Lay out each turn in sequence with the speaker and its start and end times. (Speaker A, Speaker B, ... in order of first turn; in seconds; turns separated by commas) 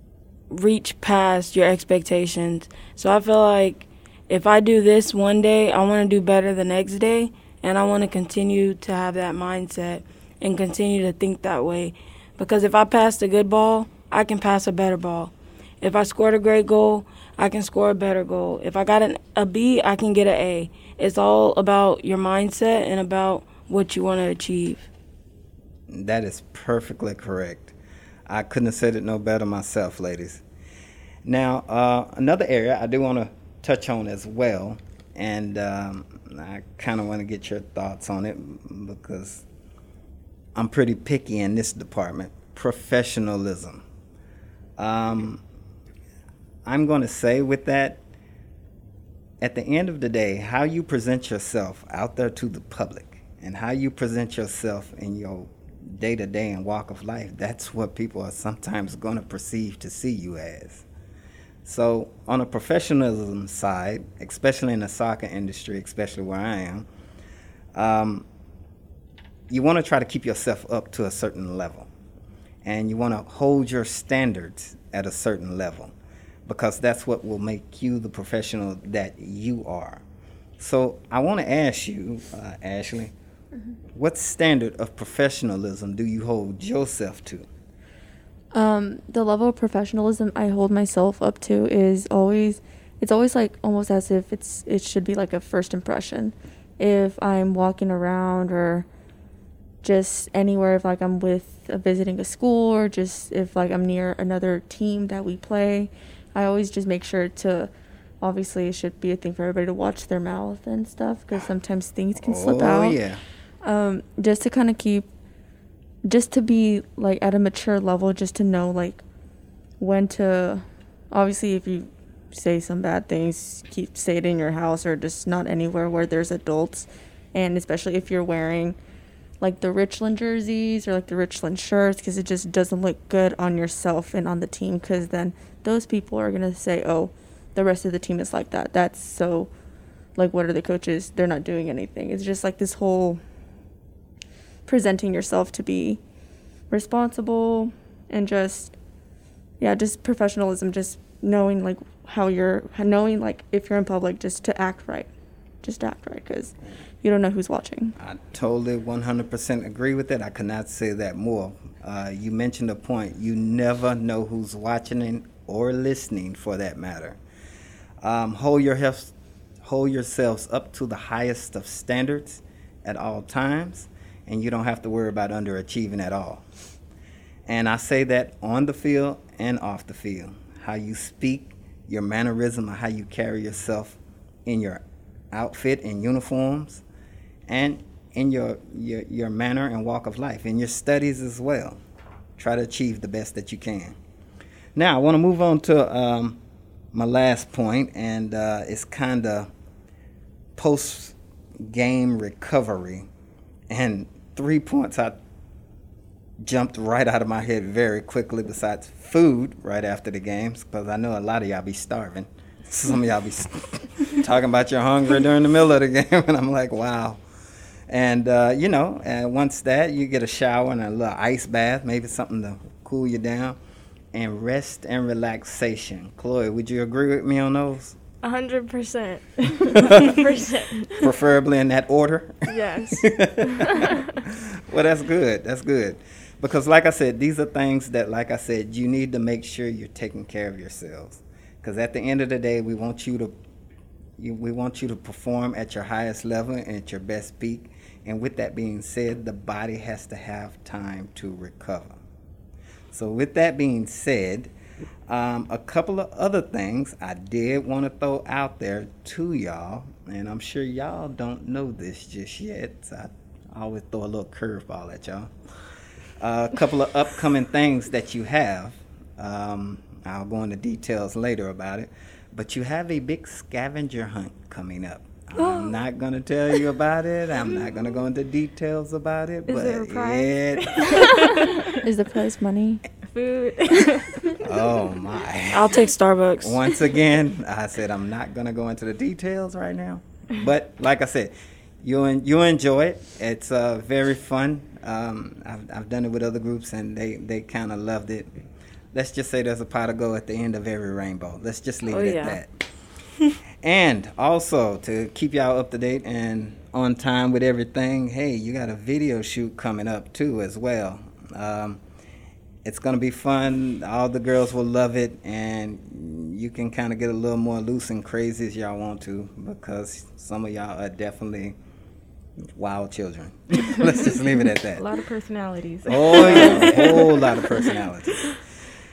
Speaker A: 0.5-24.9, Speaker B: 25.9-27.8, Speaker B: 28.3-30.4, Speaker B: 31.2-39.5, Speaker B: 40.6-43.8, Speaker B: 44.8-45.4, Speaker B: 46.7-48.0, Speaker B: 49.4-60.9, Speaker B: 61.6-66.9, Speaker B: 67.7-68.3, Speaker B: 69.5-71.9, Speaker B: 72.6-75.9, Speaker B: 76.5-80.0, Speaker B: 80.6-83.1, Speaker B: 83.9-87.5, Speaker C: 88.5-98.9, Speaker C: 99.8-113.0, Speaker B: 112.2-113.2, Speaker C: 113.6-115.1, Speaker C: 116.0-119.0, Speaker C: 119.8-128.8, Speaker C: 129.4-139.5, Speaker C: 140.2-143.2, Speaker C: 144.7-146.0, Speaker C: 146.7-148.7, Speaker C: 149.6-155.1, Speaker C: 155.6-157.9, Speaker B: 158.0-167.2, Speaker B: 168.0-176.4, Speaker B: 177.5-186.8, Speaker B: 187.5-191.8, Speaker B: 192.4-194.0, Speaker B: 194.8-196.4, Speaker B: 196.9-199.5, Speaker B: 200.6-201.2, Speaker B: 201.7-203.1, Speaker B: 203.7-205.2, Speaker B: 206.4-217.2, Speaker B: 217.9-223.6, Speaker B: 224.1-228.0, Speaker D: 228.2-231.1, Speaker B: 229.8-230.1, Speaker B: 231.0-243.3, Speaker D: 232.5-234.1, Speaker B: 244.2-252.0, Speaker B: 252.9-254.5, Speaker B: 255.1-265.3, Speaker B: 266.2-281.2, Speaker E: 279.5-281.8, Speaker C: 281.8-282.8, Speaker E: 283.0-284.4, Speaker B: 284.4-285.8, Speaker A: 285.5-286.6, Speaker B: 286.4-298.3, Speaker B: 298.9-302.5, Speaker A: 301.9-302.4, Speaker B: 303.6-311.8, Speaker B: 312.6-321.6, Speaker B: 322.6-324.8, Speaker E: 324.6-327.4, Speaker B: 325.9-328.3